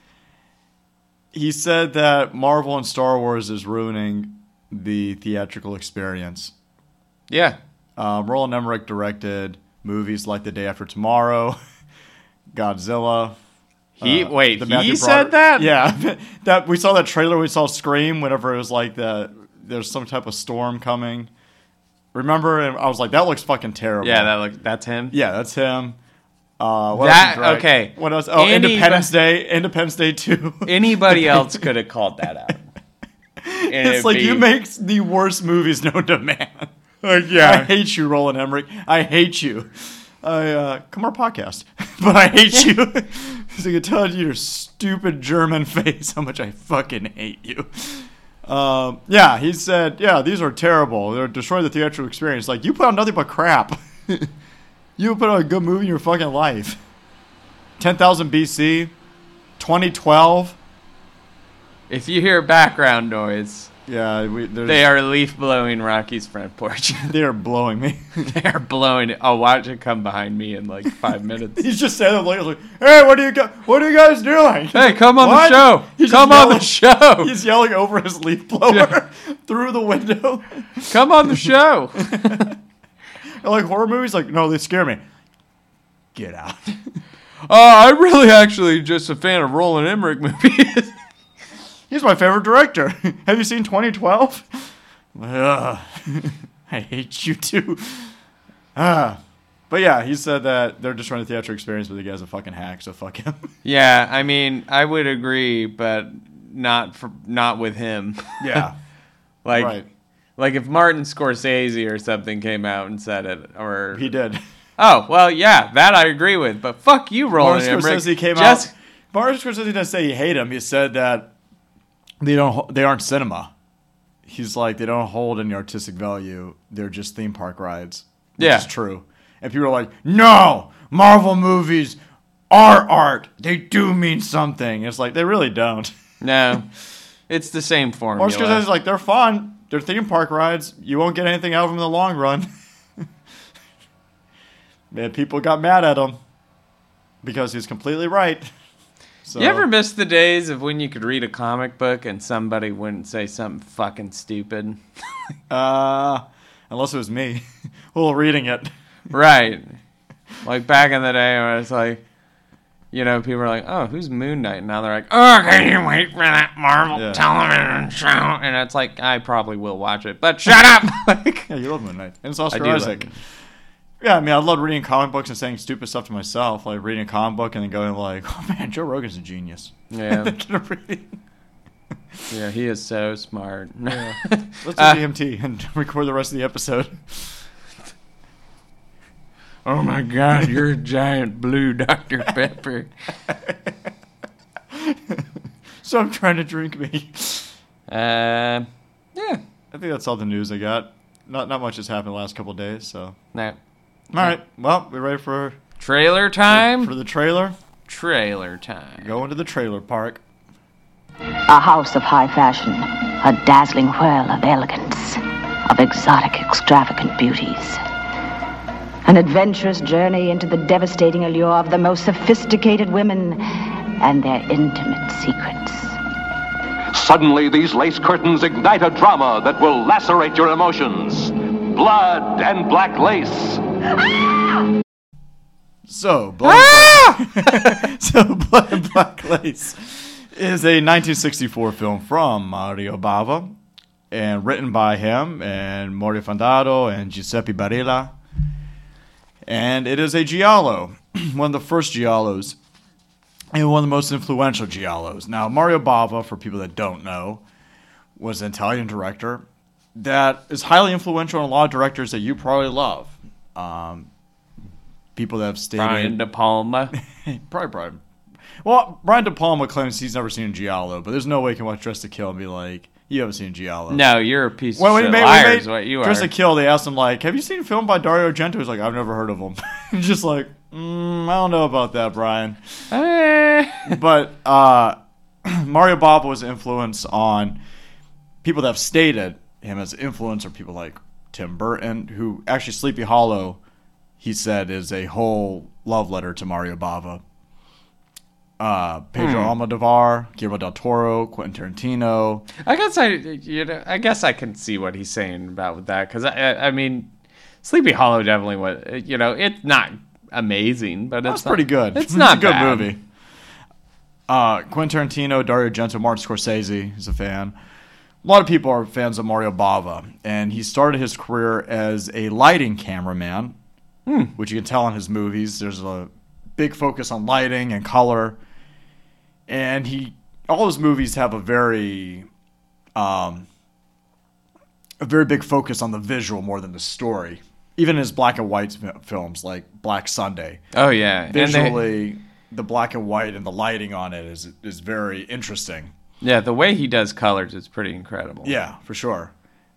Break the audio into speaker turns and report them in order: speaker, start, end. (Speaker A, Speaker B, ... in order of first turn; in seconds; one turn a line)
Speaker A: 1.3-6.5
Speaker B: 7.3-7.6
Speaker A: 8.0-11.6
Speaker A: 12.5-13.4
Speaker A: 14.0-21.3
Speaker B: 14.0-15.7
Speaker A: 22.1-24.3
Speaker B: 24.0-25.1
Speaker A: 25.1-26.0
Speaker A: 26.6-31.6
Speaker B: 26.9-29.1
Speaker B: 30.6-32.7
Speaker A: 33.4-36.7
Speaker B: 33.7-34.5
Speaker B: 37.0-37.7
Speaker A: 37.2-54.3
Speaker A: 55.0-56.8
Speaker A: 57.8-58.9
Speaker A: 59.6-60.6
Speaker B: 61.9-63.7
Speaker A: 63.9-64.9
Speaker B: 64.7-67.1
Speaker A: 67.0-68.3
Speaker B: 68.2-71.6
Speaker A: 71.5-82.5
Speaker B: 74.7-77.3
Speaker B: 78.7-78.9
Speaker B: 80.9-82.5
Speaker A: 83.4-85.0
Speaker A: 86.1-86.8
Speaker B: 87.5-91.0
Speaker A: 91.9-98.1
Speaker A: 98.7-103.5
Speaker B: 103.6-108.7
Speaker A: 108.4-108.8
Speaker B: 109.4-109.8
Speaker A: 109.5-109.9
Speaker B: 110.4-114.1
Speaker A: 113.9-114.4
Speaker B: 114.8-118.7
Speaker A: 117.3-121.3
Speaker A: 122.2-123.5
Speaker A: 124.2-132.0
Speaker B: 128.4-128.7
Speaker A: 132.5-135.9
Speaker B: 136.2-136.7
Speaker B: 137.3-138.7
Speaker A: 138.2-142.5
Speaker A: 144.9-146.2
Speaker A: 147.2-148.5
Speaker A: 149.2-149.7
Speaker B: 149.3-154.8
Speaker A: 155.5-158.7
Speaker B: 159.1-159.8
Speaker B: 160.4-162.0
Speaker B: 162.9-171.5
Speaker A: 166.9-167.2
Speaker A: 171.5-173.1
Speaker B: 172.5-173.2
Speaker A: 174.0-181.2
Speaker B: 179.9-180.3
Speaker B: 182.3-185.0
Speaker A: 183.9-187.4
Speaker B: 189.6-192.9
Speaker A: 193.3-193.8
Speaker A: 194.7-195.3
Speaker A: 195.8-197.5
Speaker B: 197.9-199.4
Speaker A: 199.7-203.2
Speaker A: 204.1-205.6
Speaker B: 205.8-206.9
Speaker A: 206.5-207.6
Speaker B: 207.9-209.1
Speaker A: 209.0-210.2
Speaker C: 211.5-217.8
Speaker C: 219.0-223.4
Speaker C: 224.0-226.0
Speaker D: 226.9-233.6
Speaker A: 235.9-243.6
Speaker B: 236.4-237.8
Speaker A: 244.1-248.1
Speaker A: 249.4-252.6
Speaker A: 253.5-257.4
Speaker A: 258.2-259.4
Speaker A: 259.9-264.1
Speaker A: 265.1-266.2
Speaker B: 265.8-266.9
Speaker A: 267.1-268.0
Speaker A: 268.6-274.1
Speaker B: 273.9-276.3
Speaker A: 274.7-282.8
Speaker B: 282.9-283.9
Speaker A: 283.8-287.6
Speaker A: 288.4-293.6
Speaker A: 294.2-297.2
Speaker A: 298.6-302.4
Speaker B: 299.2-299.5
Speaker B: 302.6-307.1
Speaker B: 307.6-312.9
Speaker A: 311.2-313.0
Speaker A: 314.3-317.5
Speaker A: 318.2-323.6
Speaker B: 324.1-324.3
Speaker A: 324.4-328.4
Speaker A: 329.5-332.3
Speaker A: 332.9-333.5
Speaker A: 335.0-340.6
Speaker B: 340.7-341.8
Speaker A: 341.3-345.9
Speaker B: 346.2-348.6
Speaker A: 348.4-349.3